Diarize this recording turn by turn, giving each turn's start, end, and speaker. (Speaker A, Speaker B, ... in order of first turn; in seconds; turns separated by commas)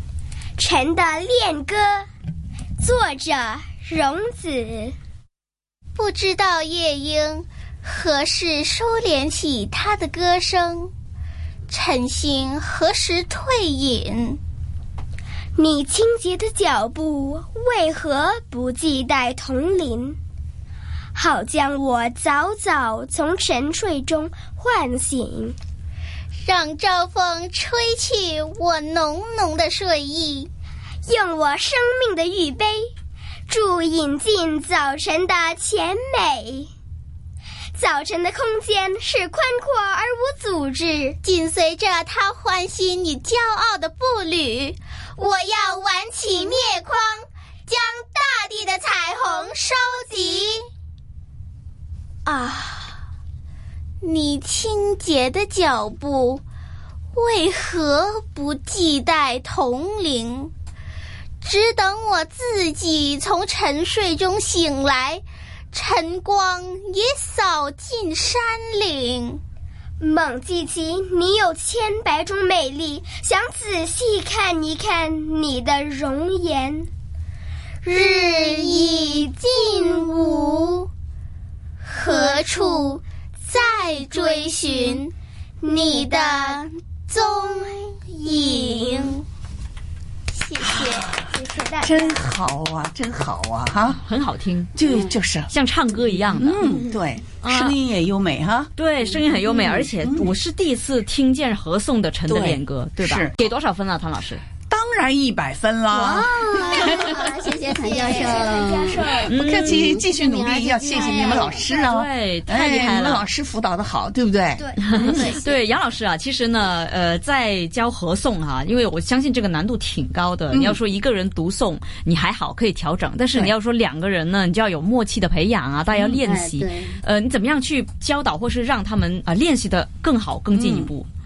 Speaker A: 0.6-2.1, Speaker A: 2.8-4.9, Speaker B: 6.0-10.9, Speaker B: 11.7-14.4, Speaker A: 15.6-20.2, Speaker A: 21.1-25.6, Speaker B: 26.4-30.5, Speaker A: 31.1-32.9, Speaker A: 33.5-36.7, Speaker A: 37.8-41.2, Speaker B: 41.2-50.7, Speaker B: 52.2-53.0, Speaker B: 54.0-56.4, Speaker B: 57.1-60.5, Speaker B: 61.4-69.4, Speaker A: 70.0-76.9, Speaker B: 77.8-80.9, Speaker B: 81.8-89.2, Speaker A: 85.6-86.6, Speaker B: 90.3-91.2, Speaker C: 90.6-91.3, Speaker A: 91.3-92.2, Speaker C: 91.8-94.0, Speaker D: 94.0-94.7, Speaker C: 94.8-95.5, Speaker D: 95.5-96.8, Speaker C: 96.4-98.7, Speaker D: 97.4-97.8, Speaker D: 98.8-104.4, Speaker C: 99.5-100.3, Speaker C: 102.3-103.4, Speaker C: 104.7-107.2, Speaker E: 105.9-111.7, Speaker B: 107.9-108.5, Speaker A: 107.9-109.3, Speaker C: 109.1-115.2, Speaker D: 109.3-110.0, Speaker A: 110.9-111.6, Speaker D: 111.7-113.3, Speaker A: 114.6-115.2, Speaker D: 114.8-131.1, Speaker B: 115.1-115.5, Speaker C: 120.5-120.8, Speaker E: 126.1-127.0, Speaker C: 130.5-130.9